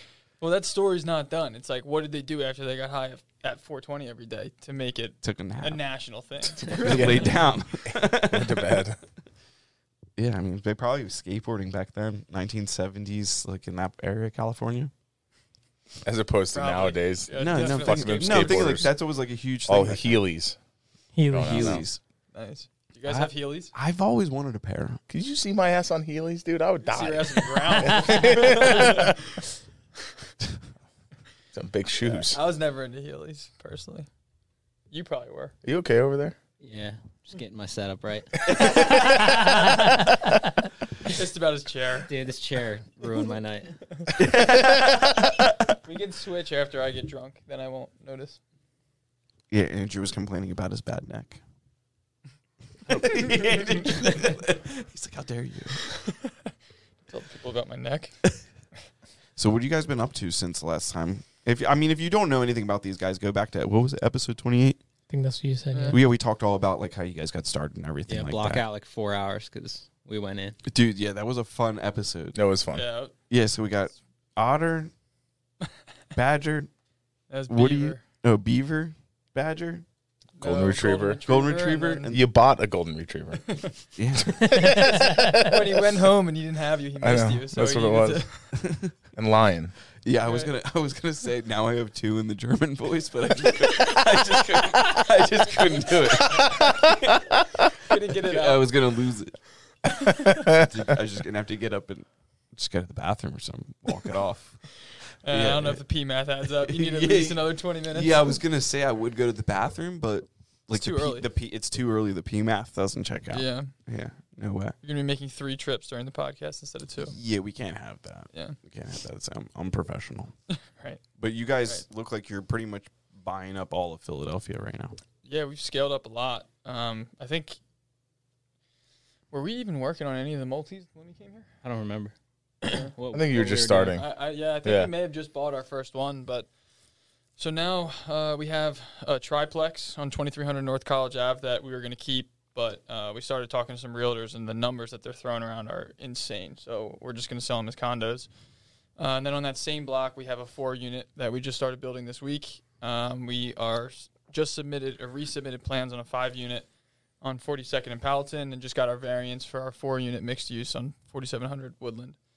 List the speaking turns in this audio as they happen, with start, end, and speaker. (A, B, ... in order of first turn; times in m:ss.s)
0:00.4-0:07.4 A
0:05.2-0:05.8 B
0:06.6-0:08.8 B
0:06.8-0:07.3 C
0:07.9-0:09.0 C
0:10.2-0:14.9 B
0:16.0-0:19.0 C
0:16.5-0:18.9 A
0:17.4-0:20.2 B
0:19.7-0:20.6 C
0:21.2-0:21.8 D
0:21.3-0:21.8 C
0:21.4-0:22.0 B
0:22.3-0:23.7 A
0:23.1-0:25.0 B
0:25.1-0:29.2 C
0:26.8-0:29.4 A
0:31.5-0:32.4 C
0:32.0-0:34.1 A
0:34.9-0:35.5 A
0:35.6-0:36.4 C
0:36.6-0:38.6 E
0:38.6-0:39.0 B
0:39.1-0:40.1 D
0:41.0-0:42.1 A
0:42.1-0:43.8 E
0:44.2-0:45.7 B
0:45.8-0:48.4 A
0:49.5-0:51.4 B
0:52.9-0:56.0 B
0:53.0-0:54.3 A
0:56.0-0:56.3 A
0:57.1-0:58.2 A
0:59.4-1:04.8 B
1:05.1-1:06.0 D
1:05.9-1:08.6 B
1:08.1-1:10.6 E
1:10.7-1:12.4 B
1:12.3-1:12.8 C
1:12.7-1:13.1 A
1:13.3-1:14.9 B
1:16.2-1:16.7 B
1:17.3-1:18.0 A
1:17.5-1:19.8 B
1:20.4-1:22.2 A
1:20.4-1:21.2 C
1:21.2-1:22.2 B
1:22.1-1:23.6 C
1:24.0-1:24.8 B
1:24.4-1:25.5 D
1:24.4-1:25.6 C
1:24.6-1:28.5 A
1:27.0-1:28.2 C
1:28.6-1:28.9 B
1:29.2-1:29.8 C
1:30.0-1:37.2 B
1:30.2-1:30.5 A
1:36.3-1:36.9 C
1:37.8-1:38.7 A
1:38.2-1:39.4 B
1:40.2-1:40.7 C
1:40.2-1:44.6 B
1:45.2-1:48.4 A
1:45.3-1:45.8 B
1:46.6-1:54.8 B
1:50.7-1:51.3 A
1:53.3-1:53.7 A
1:54.8-1:57.2 A
1:57.1-2:00.3 B
2:00.5-2:01.0 A
2:01.2-2:05.0 B
2:05.2-2:07.6 A
2:09.3-2:11.5 A
2:11.6-2:14.0 E
2:13.1-2:14.1 C
2:13.4-2:16.5 A
2:14.6-2:14.9 C
2:17.4-2:28.3 A
2:29.0-2:36.7 A
2:37.2-2:42.2 A